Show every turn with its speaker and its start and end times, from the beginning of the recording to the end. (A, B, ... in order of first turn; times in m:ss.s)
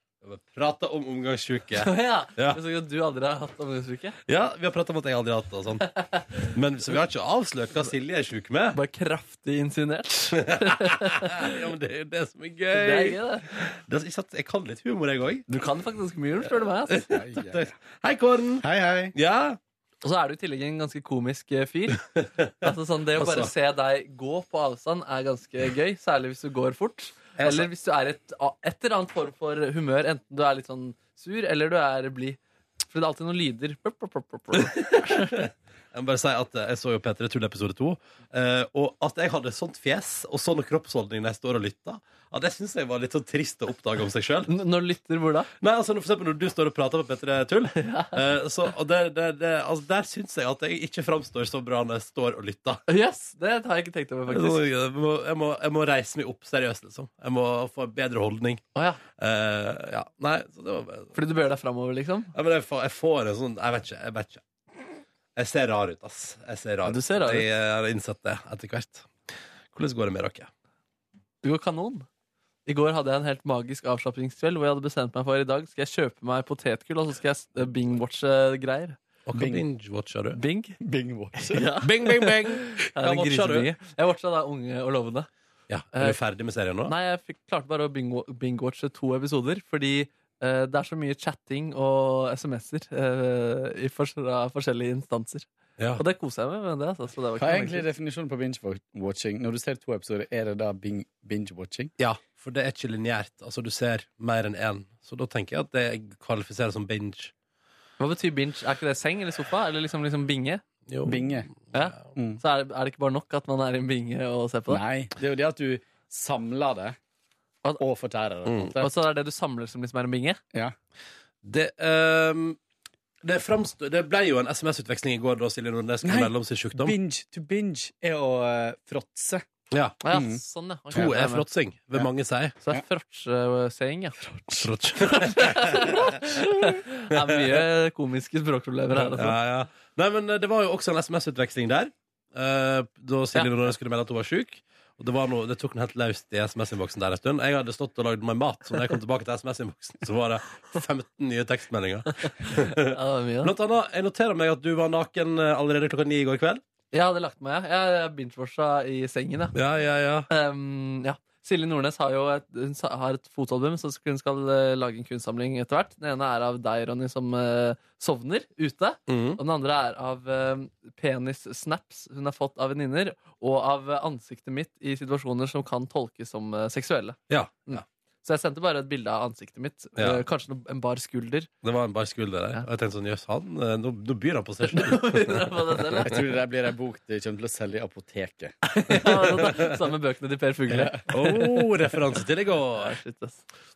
0:00.2-0:02.6 A
0:01.8-0:04.2 B
0:04.3-0:08.8 A
0:05.9-0:06.5 B
0:08.7-0:11.6 B
0:10.3-0:15.4 A
0:12.7-0:13.5 B
0:15.5-0:17.1 B
0:16.9-0:19.6 A
0:17.0-0:17.7 C
0:18.6-0:19.1 C
0:20.0-0:22.0 B
0:22.0-0:23.5 A
0:22.6-0:35.4 B
0:27.4-0:27.7 A
0:34.5-0:44.5 A
0:44.5-0:45.5 B
0:45.6-0:52.8 A
0:47.8-0:48.2 B
0:52.9-0:54.7 B
0:54.3-0:58.6 A
0:58.8-0:59.0 B
0:59.2-1:01.1 A
1:01.1-1:02.3 B
1:02.3-1:04.4 A
1:05.4-1:10.5 A
1:06.8-1:07.5 B
1:11.4-1:12.1 B
1:12.7-1:19.0 B
1:19.3-1:20.4 A
1:19.4-1:19.6 C
1:20.3-1:20.8 B
1:20.8-1:21.7 C
1:21.5-1:25.3 B
1:21.8-1:23.7 A
1:25.7-1:26.9 A
1:26.9-1:37.9 B
1:35.8-1:36.0 A
1:37.4-1:41.9 C
1:42.0-1:47.3 A
1:48.0-1:50.6 B
1:50.9-1:51.9 A
1:51.0-1:51.5 C
1:51.7-1:54.8 B
1:52.2-1:52.4 C
1:54.7-1:57.0 C
1:57.8-1:58.9 C
1:58.5-1:58.7 A
1:58.8-2:00.4 B
2:01.4-2:02.6 A
2:03.2-2:07.0 A
2:06.0-2:09.4 C
2:09.7-2:10.0 A
2:10.0-2:11.5 B
2:10.1-2:10.4 C
2:10.9-2:12.6 A
2:12.6-2:14.4 B
2:14.6-2:16.4 A
2:15.0-2:19.4 B
2:17.1-2:17.6 A
2:18.9-2:36.6 A
2:32.2-2:33.5 B
2:36.9-2:39.6 B
2:39.5-2:40.3 A
2:40.3-3:01.5 B
2:49.1-2:49.4 A
2:57.3-2:57.8 A
3:00.0-3:00.2 A
3:01.6-3:06.2 A
3:04.7-3:06.1 B
3:06.0-3:08.6 C
3:08.7-3:11.6 B
3:08.9-3:09.7 A
3:11.1-3:13.0 A
3:12.7-3:13.4 B